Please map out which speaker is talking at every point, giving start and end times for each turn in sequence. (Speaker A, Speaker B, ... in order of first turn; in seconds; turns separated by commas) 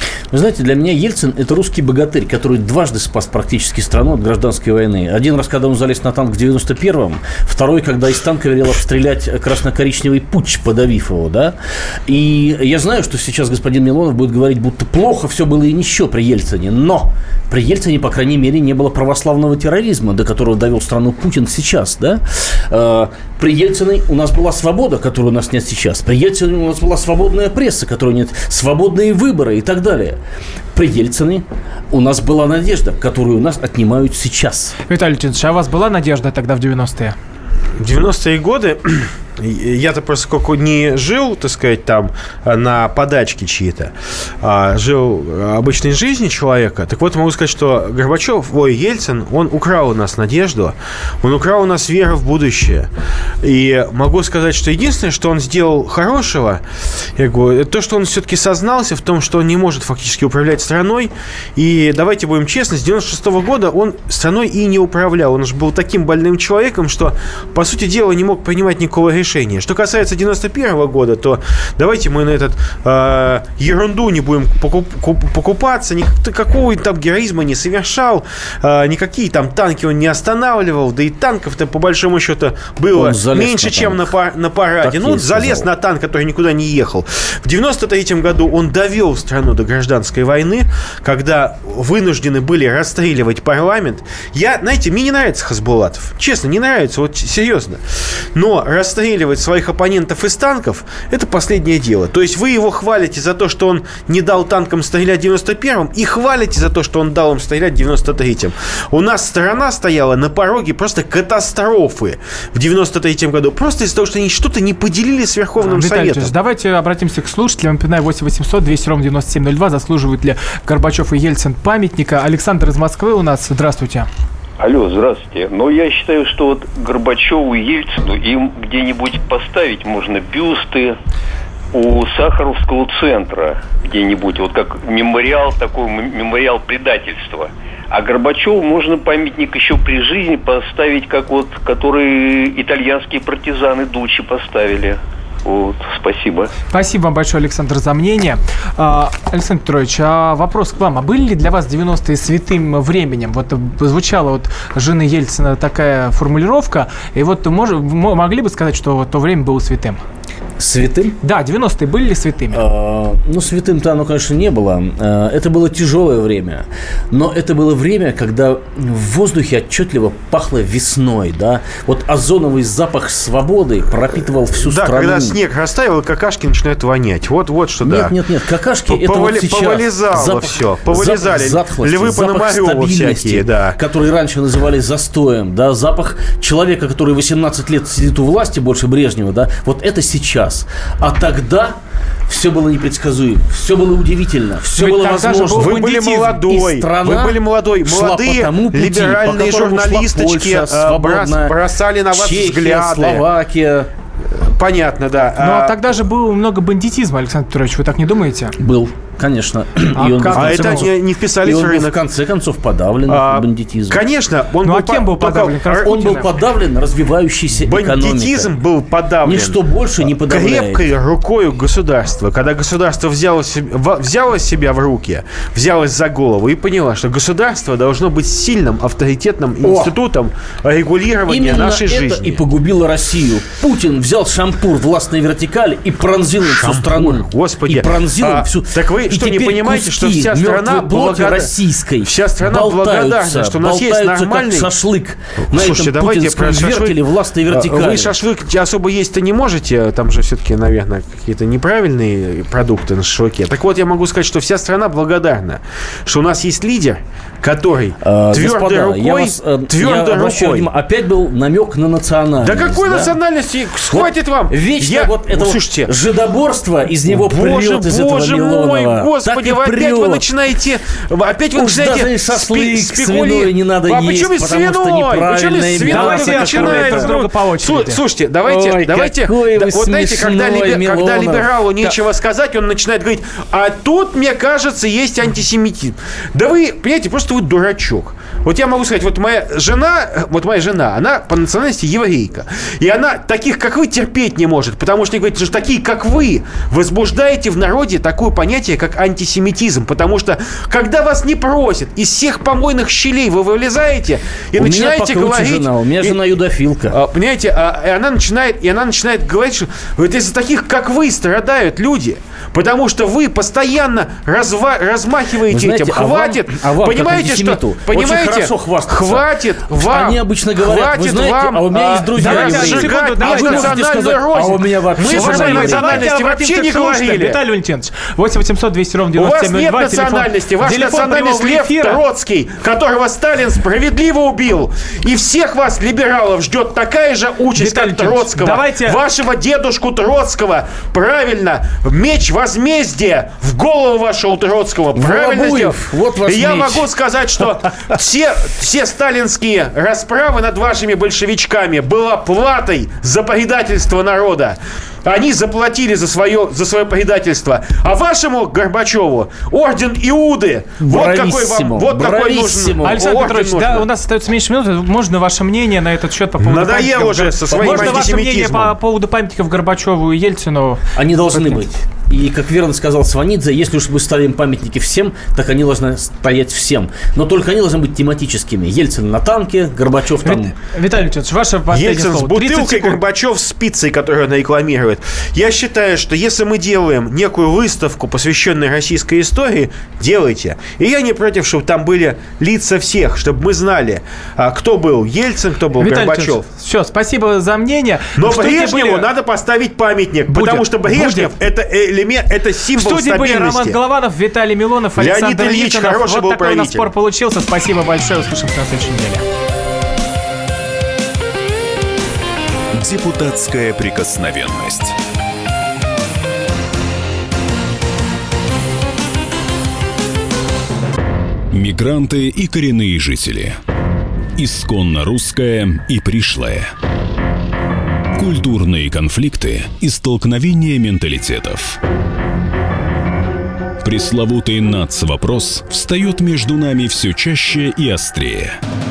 Speaker A: 0.3-11.6, Speaker A: 12.1-30.2, Speaker A: 30.7-34.8, Speaker B: 34.9-37.1, Speaker C: 37.8-52.9, Speaker C: 53.4-56.6, Speaker C: 57.2-97.8, Speaker A: 82.9-84.0, Speaker A: 84.8-85.7, Speaker C: 98.3-116.3, Speaker B: 115.6-124.1, Speaker D: 124.6-131.0, Speaker D: 131.7-146.5, Speaker B: 146.7-160.0, Speaker A: 160.6-161.2, Speaker B: 161.2-162.6, Speaker A: 162.5-175.4, Speaker C: 174.6-178.2, Speaker A: 177.8-191.8, Speaker C: 178.9-183.8, Speaker A: 192.3-195.9, Speaker B: 194.7-196.6, Speaker C: 195.5-203.3, Speaker A: 196.6-201.6, Speaker A: 202.1-203.9, Speaker C: 204.3-205.9, Speaker B: 205.4-208.5, Speaker A: 208.6-214.0, Speaker B: 210.0-210.9, Speaker C: 210.3-212.0, Speaker C: 213.1-215.9, Speaker B: 214.6-216.3, Speaker A: 215.8-218.5, Speaker C: 217.5-232.4, Speaker A: 219.2-220.8, Speaker A: 229.6-229.9, Speaker A: 231.3-248.1, Speaker C: 236.4-244.7, Speaker C: 245.5-260.7, Speaker A: 258.0-263.1, Speaker C: 262.4-265.9, Speaker A: 263.9-270.2, Speaker C: 267.1-306.2, Speaker A: 271.5-277.1, Speaker B: 275.8-278.0, Speaker A: 278.4-281.5, Speaker A: 304.6-307.0, Speaker C: 306.9-327.4, Speaker A: 315.5-326.1, Speaker B: 322.2-323.8, Speaker B: 325.0-332.0, Speaker C: 329.1-363.9, Speaker B: 337.6-339.0, Speaker A: 345.0-346.9, Speaker A: 360.8-363.0, Speaker B: 362.8-371.6, Speaker C: 366.4-368.8, Speaker A: 367.5-368.1, Speaker A: 371.0-380.5, Speaker B: 380.2-383.0, Speaker C: 381.7-396.4, Speaker B: 395.8-399.1, Speaker C: 398.2-403.8, Speaker B: 400.3-401.3, Speaker B: 402.8-409.2, Speaker C: 405.0-406.9, Speaker E: 412.7-415.0, Speaker E: 421.5-423.6, Speaker E: 424.4-426.7, Speaker E: 428.2-431.8, Speaker E: 433.8-438.6